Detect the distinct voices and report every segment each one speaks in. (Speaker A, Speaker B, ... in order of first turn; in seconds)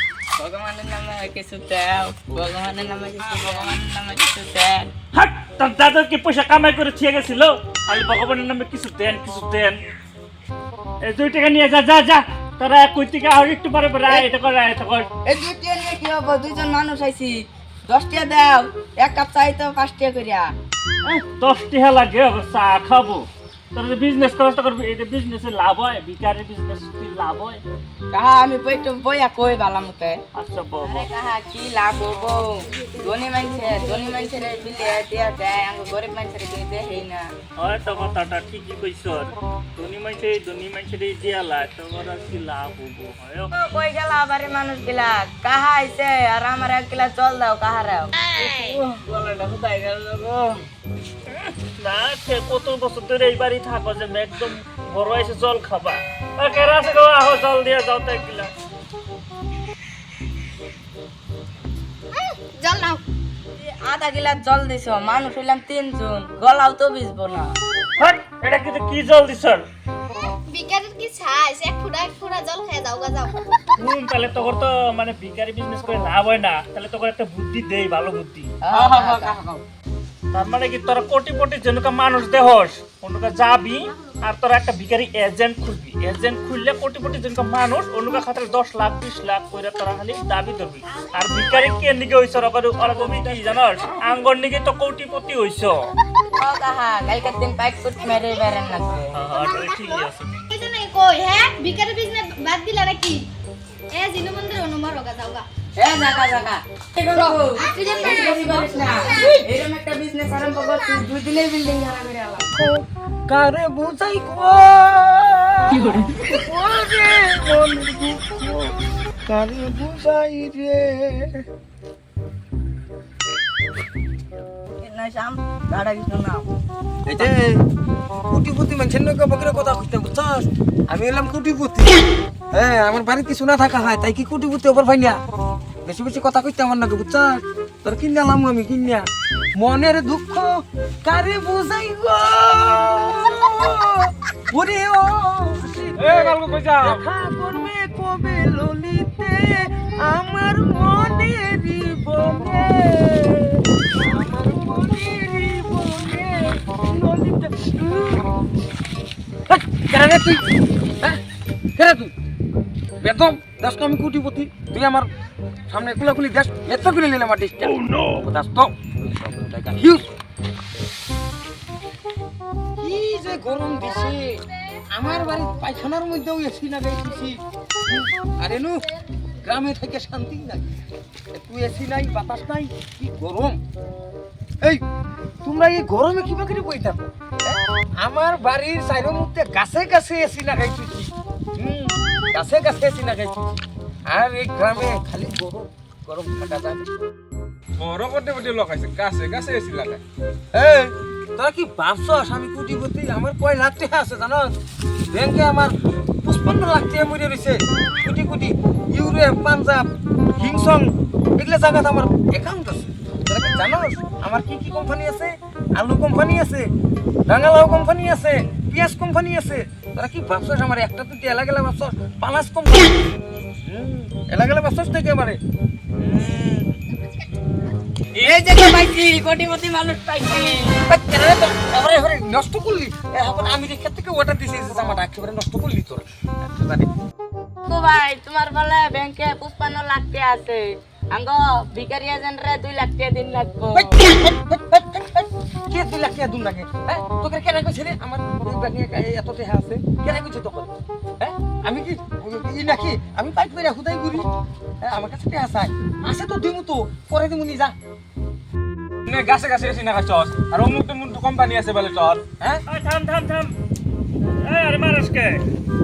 Speaker A: 0.4-4.9, 15.2-20.5, 28.1-30.2, 30.9-37.3, 43.5-50.6, 63.5-67.5, 78.6-79.4, 96.3-99.2, 105.8-112.5, 115.8-116.2, 124.8-126.5, 228.2-230.8, 237.6-243.9
Speaker B: 5.1-9.8, 11.0-15.1, 21.0-27.6, 30.3-31.1, 37.6-43.5, 51.4-58.5, 68.0-69.6, 73.8-78.5, 80.3-95.9, 99.1-100.3, 262.7-263.5, 264.2-265.4
Speaker C: 62.1-63.0, 70.5-73.7, 99.4-103.3, 103.9-105.4, 107.6-109.4
Speaker D: 78.7-79.6, 112.5-121.4, 127.1-127.6, 128.3-132.0, 132.5-135.2, 135.8-140.5, 141.0-158.3, 159.5-161.2, 161.8-162.1, 163.0-165.1, 165.7-170.1, 172.8-174.4, 174.9-178.8, 179.4-180.6, 181.3-183.6, 185.4-196.9, 200.5-204.5, 205.1-205.7, 206.2-216.7, 217.3-225.4, 225.9-226.8, 230.9-236.9, 243.7-254.3, 254.8-257.8
Speaker E: 146.0-147.0, 197.8-200.0, 259.1-262.3